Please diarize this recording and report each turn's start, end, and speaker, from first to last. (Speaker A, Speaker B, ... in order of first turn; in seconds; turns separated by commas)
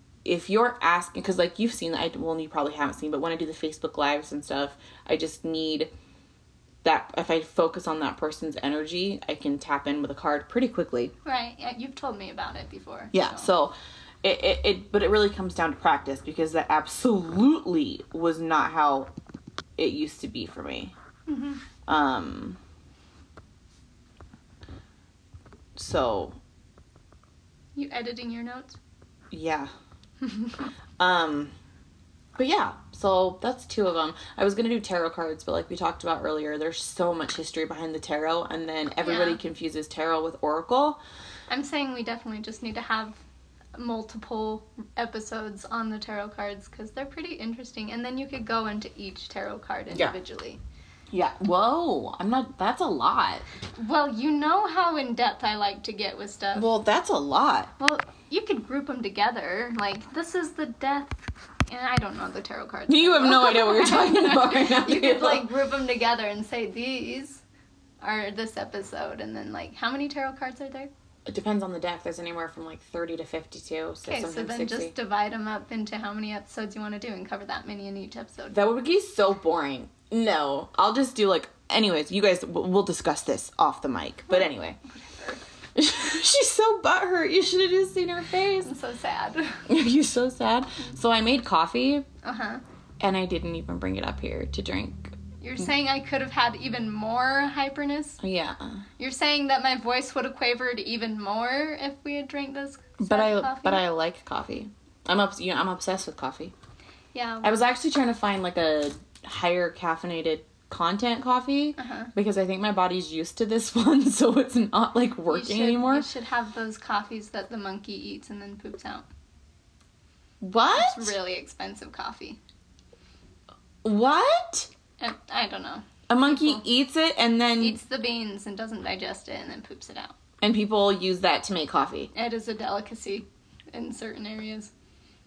Speaker A: 0.2-5.9, Speaker A: 6.8-11.1, Speaker B: 11.2-13.5, Speaker A: 13.1-19.1, Speaker A: 19.8-20.9, Speaker B: 21.3-21.6, Speaker A: 21.9-22.6, Speaker A: 25.8-26.4, Speaker B: 27.8-28.8, Speaker A: 29.3-29.7, Speaker B: 30.2-30.5, Speaker A: 31.0-31.5, Speaker A: 32.4-41.0, Speaker B: 39.0-39.4, Speaker B: 41.5-43.2, Speaker B: 43.8-50.6, Speaker A: 51.1-53.5, Speaker B: 53.8-56.7, Speaker A: 56.6-57.7, Speaker B: 57.8-67.4, Speaker A: 62.9-65.5, Speaker B: 68.0-70.9, Speaker A: 71.3-74.9, Speaker B: 74.0-78.6, Speaker A: 78.5-84.8, Speaker B: 84.3-85.4, Speaker A: 85.8-88.7, Speaker B: 88.6-89.6, Speaker A: 89.7-92.1, Speaker B: 92.2-92.6, Speaker A: 93.0-95.2, Speaker B: 95.4-98.2, Speaker A: 98.2-98.8, Speaker B: 99.0-103.8, Speaker A: 103.0-106.5, Speaker B: 107.1-107.6, Speaker A: 107.4-116.1, Speaker B: 111.8-112.1, Speaker B: 115.3-119.1, Speaker A: 120.4-121.1, Speaker B: 120.7-122.4, Speaker A: 123.8-124.7, Speaker B: 125.0-126.6, Speaker A: 126.1-127.8, Speaker B: 127.6-130.1, Speaker A: 130.4-132.1, Speaker B: 132.1-134.7